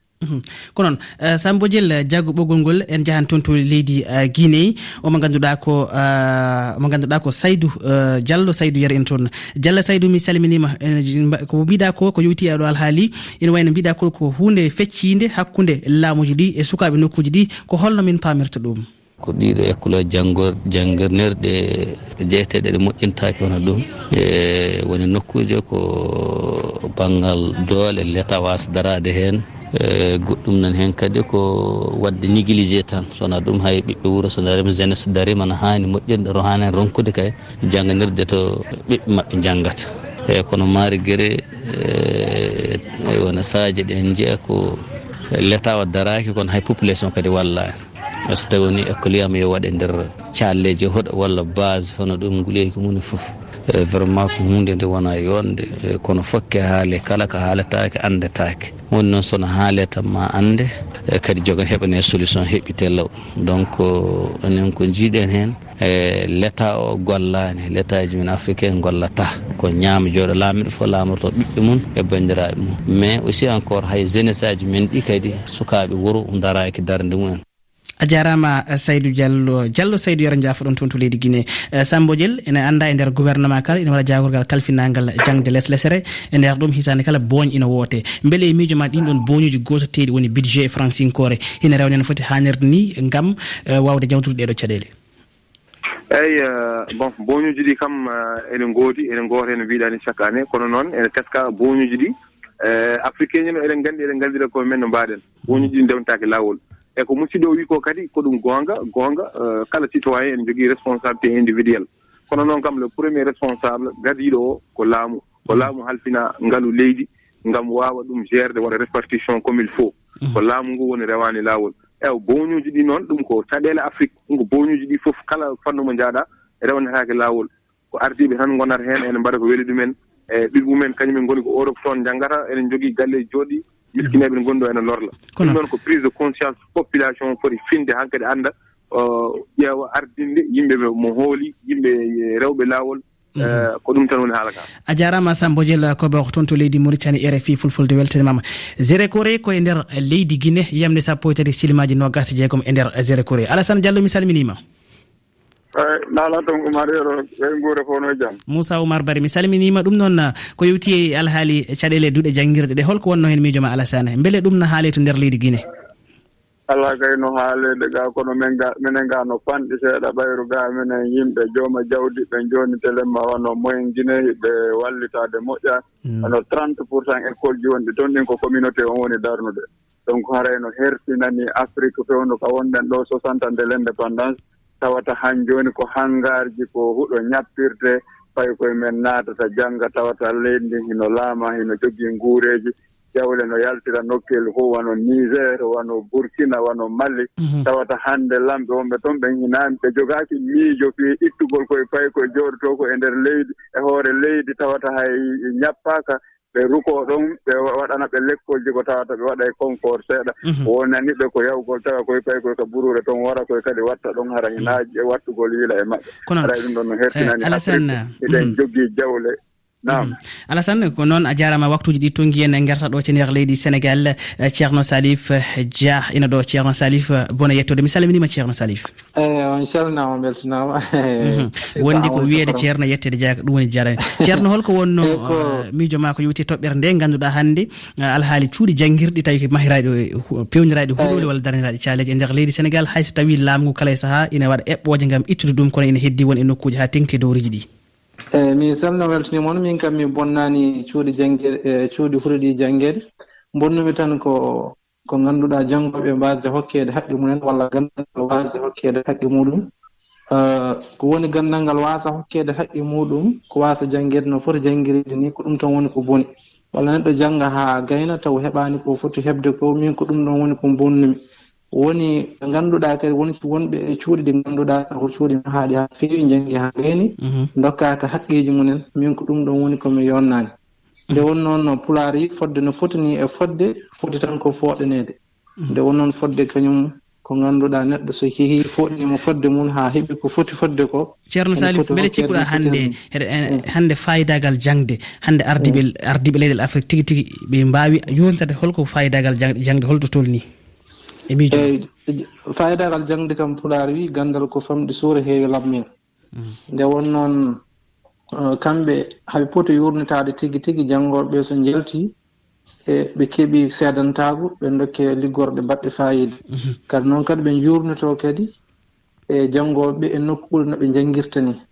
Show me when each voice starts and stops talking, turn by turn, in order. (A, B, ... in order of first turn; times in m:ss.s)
0:00.2-0:18.8 A
0:19.2-0:44.6 B
0:45.3-0:47.7 B
0:48.3-1:17.4 B
1:18.0-1:34.9 A
1:36.1-1:42.1 C
1:42.6-2:24.7 C
2:23.4-2:23.6 A
2:24.9-2:34.6 A
2:35.7-2:38.4 D
2:38.5-2:45.6 A
2:46.7-3:40.1 D
3:17.4-3:17.7 A
3:36.2-3:36.5 A
3:37.1-3:38.5 A
3:39.9-3:48.9 A
3:49.2-3:52.7 E
3:51.2-4:07.6 A
3:55.0-3:55.6 E
4:01.0-4:01.3 E
4:08.3-4:13.0 E
4:13.5-4:19.7 E
4:20.3-4:31.2 E
4:31.7-4:40.5 E
4:37.2-4:37.5 A
4:41.1-4:45.1 E
4:45.7-4:52.9 E
4:51.3-5:00.4 A
5:01.3-5:01.7 A
5:01.5-5:05.8 E
5:06.7-5:07.6 E
5:08.4-5:12.1 E
5:12.9-5:16.4 E
5:16.9-5:18.5 E
5:19.3-5:21.6 E